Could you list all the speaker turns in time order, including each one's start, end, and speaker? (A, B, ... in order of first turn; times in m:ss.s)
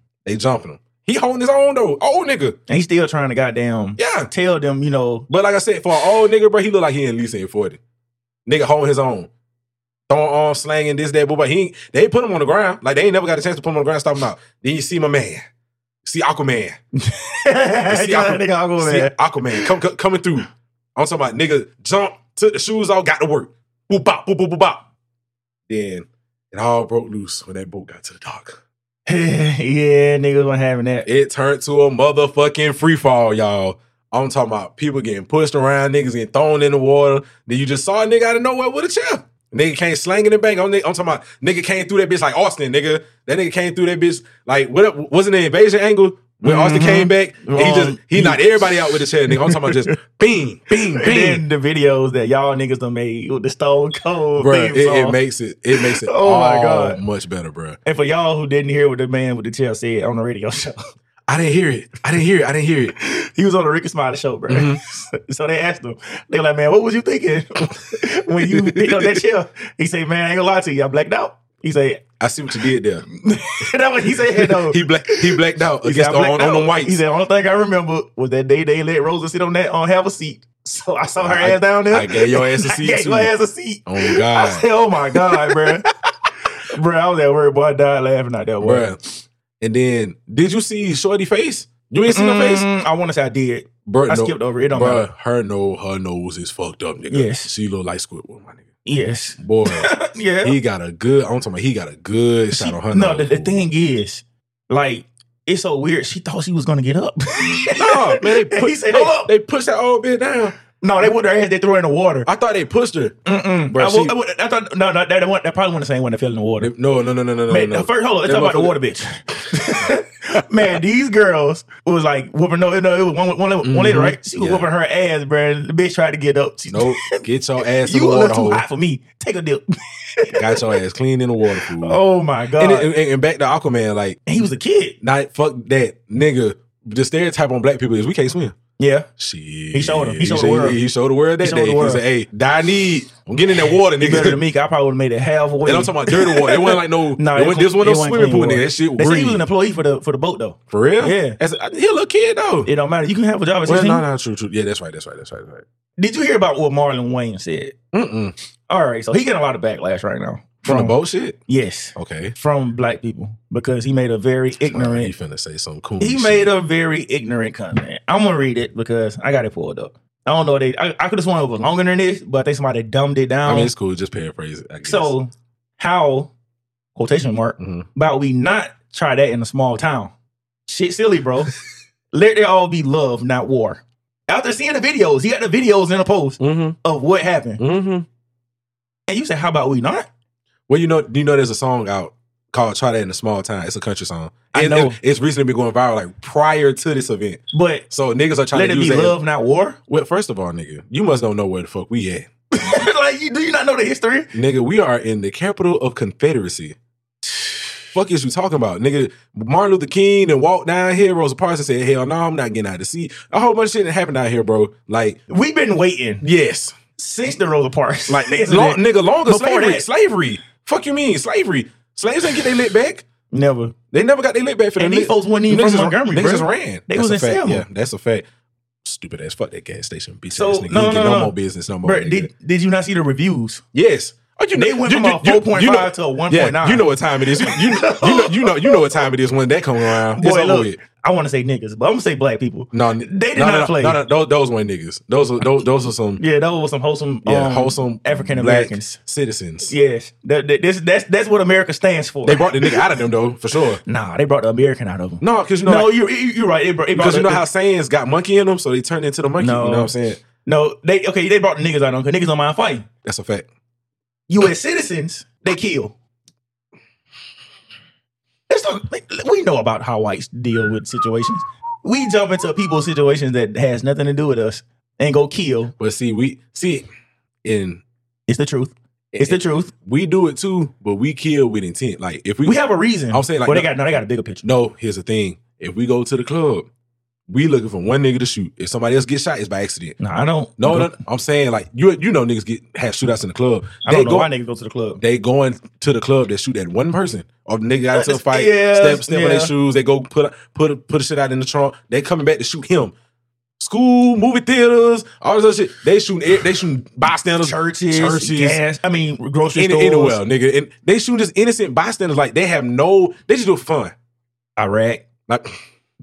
0:00.2-0:02.6 A
0:02.7-0:05.3 B
0:04.0-0:04.3 A
0:05.3-0:07.8 A
0:08.5-0:09.3 A
0:10.1-0:15.4 A
0:16.0-0:16.8 A
0:17.0-0:19.7 B
0:17.9-0:24.9 A
0:25.7-0:28.6 A
0:29.1-0:31.1 B
0:31.0-0:51.4 A
0:46.4-0:49.9 B
0:50.9-0:55.2 B
0:54.4-0:57.8 A
0:55.7-0:57.0 B
0:57.8-1:00.8 B
1:01.3-1:02.9 A
1:03.0-1:12.0 B
1:04.5-1:04.8 A
1:08.3-1:09.2 A
1:12.2-1:13.1 A
1:13.1-1:25.9 B
1:14.1-1:17.0 A
1:21.2-1:23.3 A
1:23.9-1:25.8 A
1:26.4-1:29.0 B
1:28.6-1:29.0 A
1:29.6-1:32.7 A
1:32.1-1:35.0 B
1:33.9-1:38.7 A
1:37.1-1:37.5 B
1:38.8-1:40.6 B
1:39.4-1:39.9 A
1:40.4-1:43.6 A
1:42.5-1:49.3 B
1:47.8-1:50.6 A
1:50.8-1:52.3 B
1:52.2-1:53.2 A
1:53.2-1:56.7 B
1:53.7-1:54.2 A
1:56.6-1:58.8 A
1:57.5-2:10.8 B
1:59.5-2:00.8 A
2:03.6-2:04.7 A
2:06.7-2:08.6 A
2:10.3-2:12.0 A
2:11.5-2:12.9 B
2:12.6-2:14.2 A
2:14.2-2:15.0 B
2:15.0-2:18.6 A
2:18.8-2:19.1 B
2:19.2-2:24.4 A
2:19.7-2:20.8 B
2:21.4-2:22.0 B
2:24.0-2:31.4 B
2:25.7-2:29.4 A
2:30.7-2:32.7 A
2:32.6-2:34.0 B
2:33.7-2:35.6 A
2:36.0-2:37.8 B
2:37.9-2:38.4 A
2:38.7-2:40.9 B
2:40.6-2:41.4 A
2:41.5-2:45.1 B
2:41.9-2:42.3 A
2:44.6-2:46.5 A
2:46.0-2:53.7 B
2:53.4-2:55.1 A
2:54.8-2:56.3 B
2:56.9-3:00.1 B
2:57.6-2:57.9 A
3:00.7-3:01.5 B
3:02.1-3:07.6 B
3:06.4-3:06.8 A
3:07.6-3:08.1 A
3:09.1-3:10.1 B
3:10.7-3:19.2 A
3:14.5-3:15.0 B
3:17.5-3:17.9 B
3:18.5-3:19.8 B
3:19.9-3:22.3 A
3:22.5-3:24.3 B
3:24.3-3:26.8 A
3:27.4-3:27.6 B
3:27.9-3:35.2 A
3:35.3-3:36.2 B
3:36.2-3:36.8 A
3:37.0-3:39.9 B
3:38.1-3:43.0 A
3:43.3-3:43.8 B
3:43.9-3:48.2 A
3:44.8-3:47.6 B
3:48.8-3:52.3 A
3:50.3-3:53.6 B
3:53.7-4:00.8 A
3:54.6-3:58.8 B
4:00.1-4:04.0 B
4:02.7-4:06.2 A
4:06.2-4:09.0 B
4:07.2-4:09.7 A
4:09.6-4:12.9 B
4:12.2-4:13.8 A
4:13.8-4:17.4 B
4:15.2-4:15.9 A
4:16.9-4:20.2 A
4:19.4-4:19.9 B
4:20.4-4:22.9 B
4:23.0-4:23.5 A
4:24.3-4:25.9 B
4:28.5-4:35.7 B
4:35.8-4:36.9 A
4:37.4-4:37.8 A
4:38.3-4:39.7 B
4:39.1-4:42.6 A
4:42.4-4:44.5 B
4:43.1-4:43.7 A
4:44.4-4:46.7 A
4:47.3-4:50.0 A
4:50.0-4:50.9 B
4:50.6-4:54.3 A
4:53.8-4:55.0 B
4:55.0-5:02.9 A
4:57.9-4:59.5 B
5:03.6-5:08.6 A
5:07.4-5:10.2 B
5:09.6-5:13.9 A
5:14.6-5:15.1 B
5:15.3-5:15.6 A